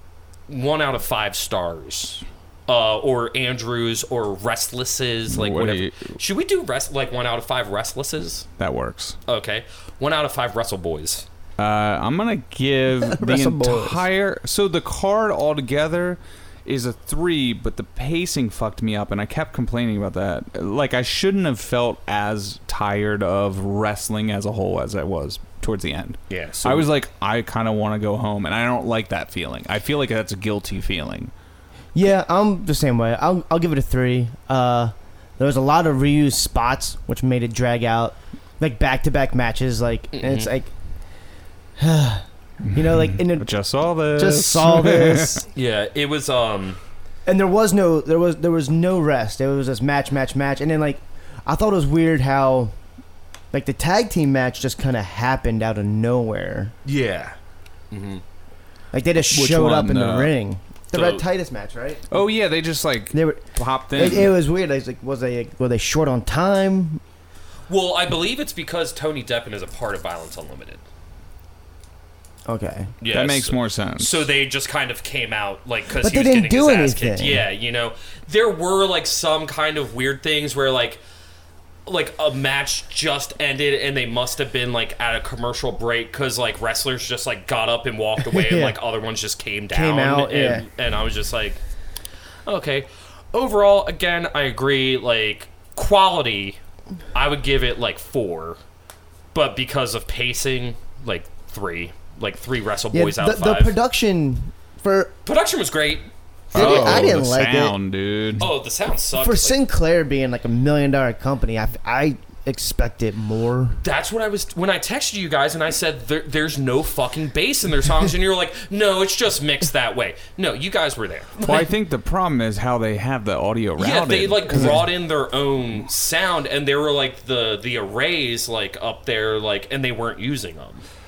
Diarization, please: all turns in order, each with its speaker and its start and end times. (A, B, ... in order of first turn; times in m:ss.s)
0:00.5-0:08.5 A
0:05.3-0:06.2 B
0:08.6-0:09.2 B
0:09.3-0:11.3 A
0:11.6-0:31.3 B
0:13.0-0:14.0 C
0:26.3-0:26.9 A
0:31.9-0:40.7 C
0:40.1-0:40.5 A
0:41.8-0:43.5 C
0:42.6-0:45.4 B
0:44.1-0:45.4 C
0:45.5-0:46.8 A
0:47.2-0:52.7 C
0:53.5-0:56.7 C
0:56.8-0:57.3 A
0:57.9-0:58.2 A
0:58.9-1:02.0 C
0:59.3-1:00.3 B
1:00.9-1:01.2 A
1:02.1-1:04.3 B
1:03.1-1:07.0 C
1:07.7-1:10.8 A
1:12.4-1:12.9 C
1:13.0-1:21.0 A
1:13.1-1:14.3 B
1:16.0-1:17.4 C
1:21.8-1:31.6 A
1:28.2-1:28.8 C
1:29.7-1:30.6 C
1:32.4-1:36.6 A
1:37.1-1:38.6 A
1:39.3-1:43.7 A
1:42.9-1:45.1 C
1:45.2-1:47.1 A
1:46.5-1:47.7 C
1:46.5-1:48.5 B
1:48.4-1:49.6 A
1:49.2-1:53.8 C
1:53.8-2:01.7 A
2:01.4-2:04.8 B
2:03.8-2:10.8 A
2:04.5-2:04.8 C